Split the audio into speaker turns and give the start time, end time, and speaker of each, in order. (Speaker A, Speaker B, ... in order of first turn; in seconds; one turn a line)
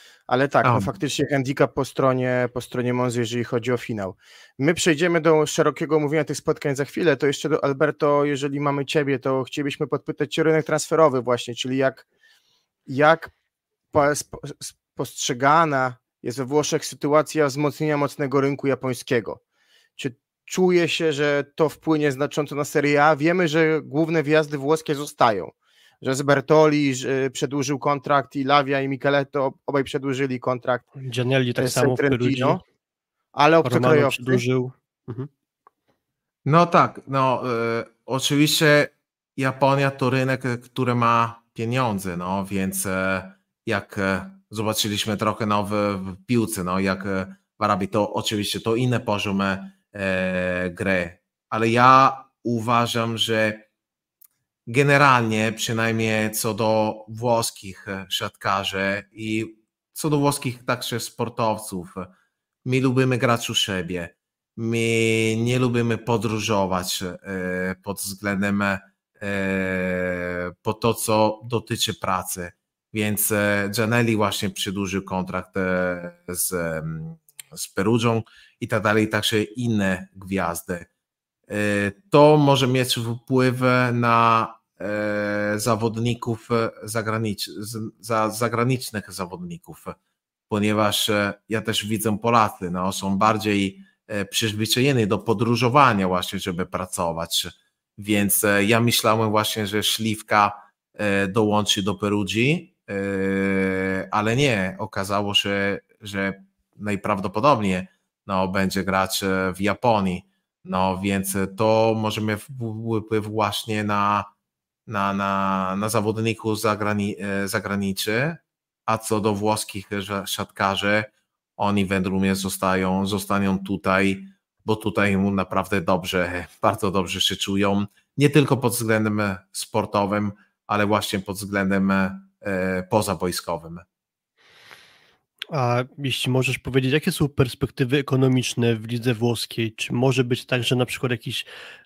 Speaker A: 0.3-12.1
Speaker B: 0.6-0.9
Speaker A: 12.9-13.3
Speaker A: 13.9-19.4
Speaker A: 20.0-30.9
Speaker C: 31.0-32.6
Speaker A: 31.6-32.6
Speaker A: 33.3-34.4
Speaker C: 33.6-35.3
Speaker B: 36.5-53.7
Speaker B: 54.7-62.1
Speaker B: 62.6-80.9
Speaker B: 81.5-90.0
Speaker B: 90.5-114.3
Speaker B: 114.9-133.8
Speaker C: 135.5-141.5